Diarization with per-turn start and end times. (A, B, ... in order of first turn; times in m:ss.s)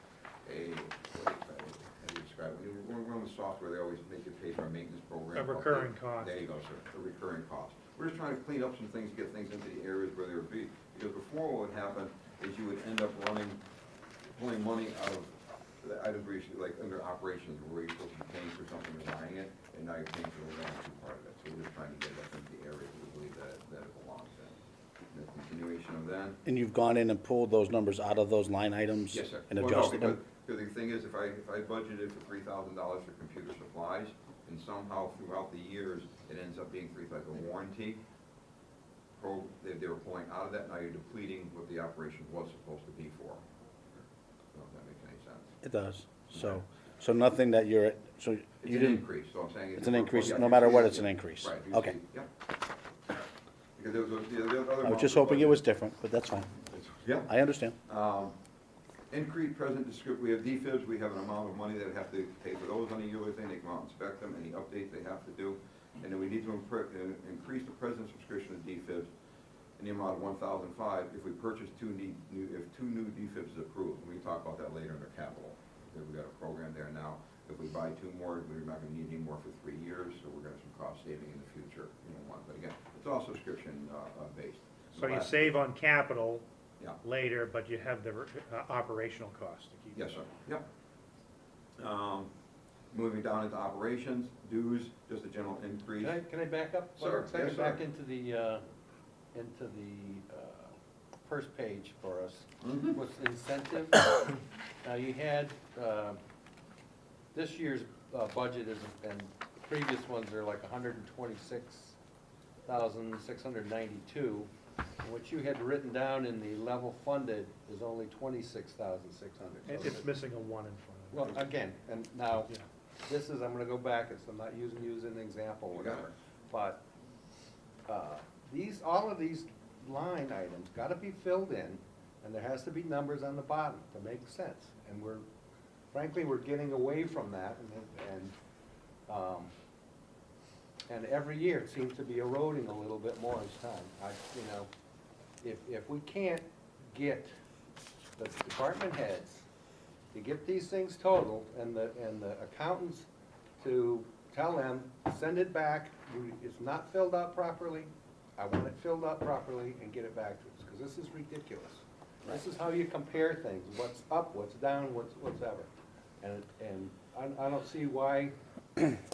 0:00.4-0:13.6 A
0:05.3-0:06.4 B
0:14.3-0:24.6 A
0:25.1-0:26.4 A
0:26.4-0:30.2 C
0:29.1-0:38.0 A
0:39.2-0:43.4 A
0:44.5-0:45.6 A
0:45.6-0:49.0 C
0:46.3-0:46.6 A
0:48.6-0:52.3 A
0:49.8-0:52.0 C
0:53.8-0:55.6 A
0:54.8-0:56.6 C
0:56.6-0:57.3 A
0:57.3-0:57.7 C
0:57.8-0:58.4 A
0:59.1-1:09.1 A
1:09.8-1:25.5 A
1:24.9-1:26.4 B
1:27.0-1:30.1 B
1:29.9-1:30.6 A
1:31.8-1:32.3 A
1:32.9-1:36.2 A
1:36.0-1:38.6 D
1:37.0-1:37.8 A
1:39.3-1:46.2 D
1:42.6-1:43.0 A
1:47.3-1:52.0 D
1:52.6-1:54.5 D
1:55.0-2:00.1 D
1:59.6-2:01.4 B
2:01.1-2:02.5 D
2:03.0-2:06.8 D
2:05.7-2:06.1 A
2:07.9-2:15.2 D
2:15.9-2:18.3 D
2:19.1-2:19.5 D
2:20.9-2:24.7 D
2:25.4-2:27.3 D
2:28.2-2:29.4 D
2:30.1-2:33.1 D
2:33.6-2:45.7 D
2:46.2-2:48.3 D